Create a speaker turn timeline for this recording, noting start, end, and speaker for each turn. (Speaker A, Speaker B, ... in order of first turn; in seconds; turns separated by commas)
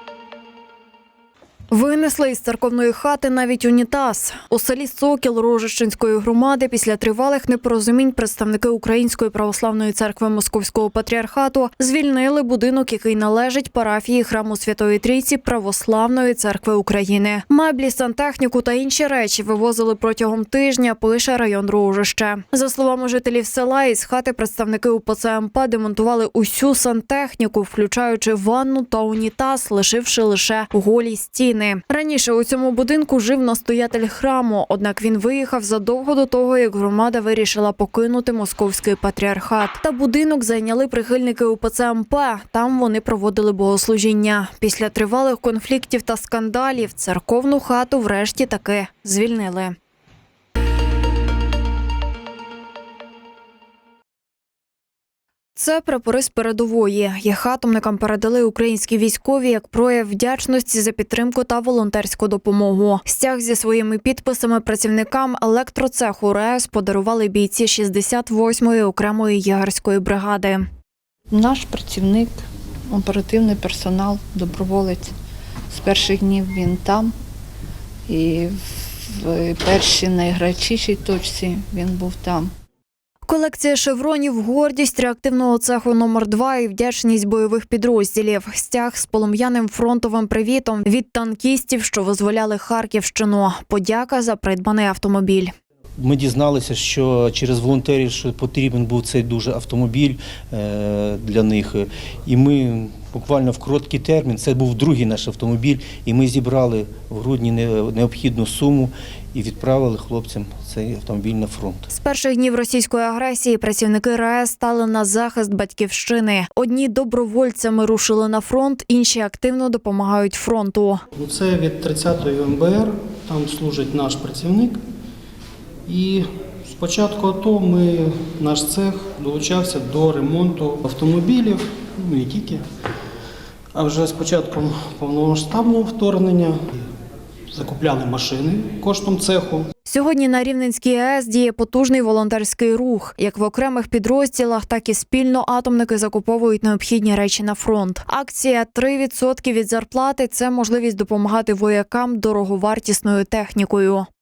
Speaker A: 1.7-49.7, Speaker A: 55.5-70.6, Speaker B: 71.3-75.1, Speaker B: 75.7-77.1, Speaker B: 78.1-82.5, Speaker A: 83.2-95.5, Speaker C: 96.0-111.9, Speaker A: 111.9-121.0, Speaker D: 121.2-124.8, Speaker D: 125.8-132.6, Speaker D: 133.7-136.6, Speaker D: 137.5-139.7, Speaker A: 139.8-154.1